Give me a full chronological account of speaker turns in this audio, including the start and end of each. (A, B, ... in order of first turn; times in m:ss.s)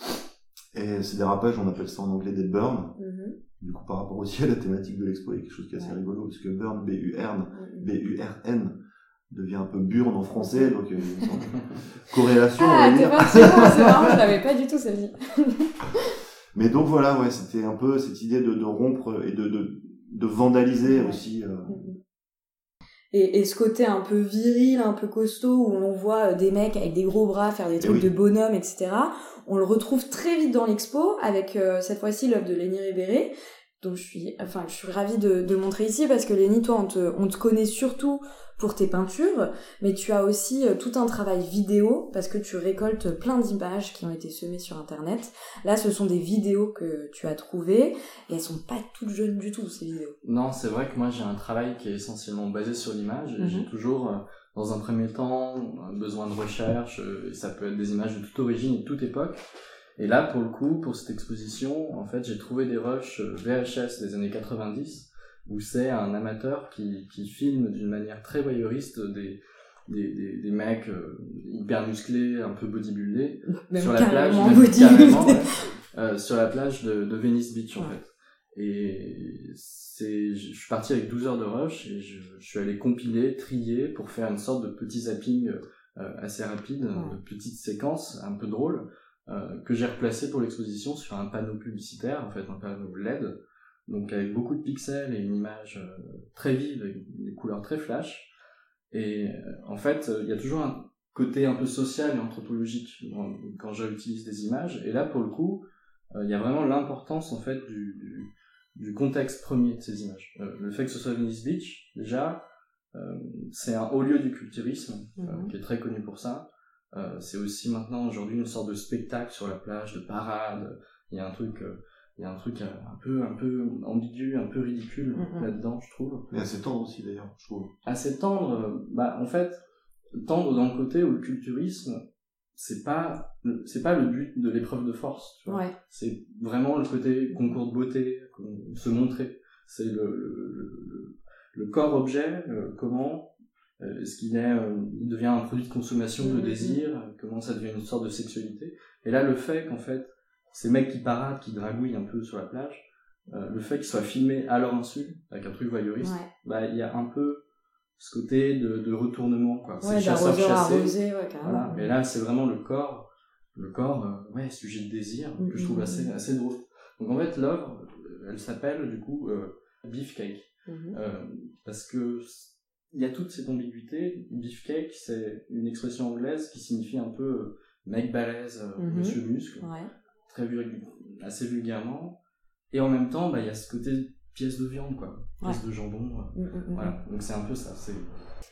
0:00.7-0:03.0 A
0:03.0-0:03.4 B
0:03.6-0:14.2 A
0:07.6-0:07.9 B
0:10.4-0:10.7 B
0:12.6-0:15.7 B
0:16.5-0:21.8 A
0:20.9-0:22.0 B
0:23.1-0:50.1 B
0:27.8-0:28.1 A
0:50.2-0:59.4 C
0:53.4-0:53.7 B
1:00.0-1:38.3 C
1:13.6-1:15.4 B
1:38.9-2:06.2 C
1:55.2-1:55.5 B
2:05.2-2:05.5 B
2:06.3-2:07.7 A
2:07.8-2:09.6 C
2:10.2-2:12.0 C
2:12.6-2:37.4 C
2:15.5-2:15.7 B
2:26.2-2:26.8 B
2:36.0-2:36.3 B
2:38.0-2:59.7 C
2:39.8-2:41.9 B
2:45.4-2:46.1 B
2:50.7-2:51.0 B
2:58.8-2:59.9 B
3:00.3-3:02.2 C
3:02.7-3:08.1 C
3:06.4-3:06.9 B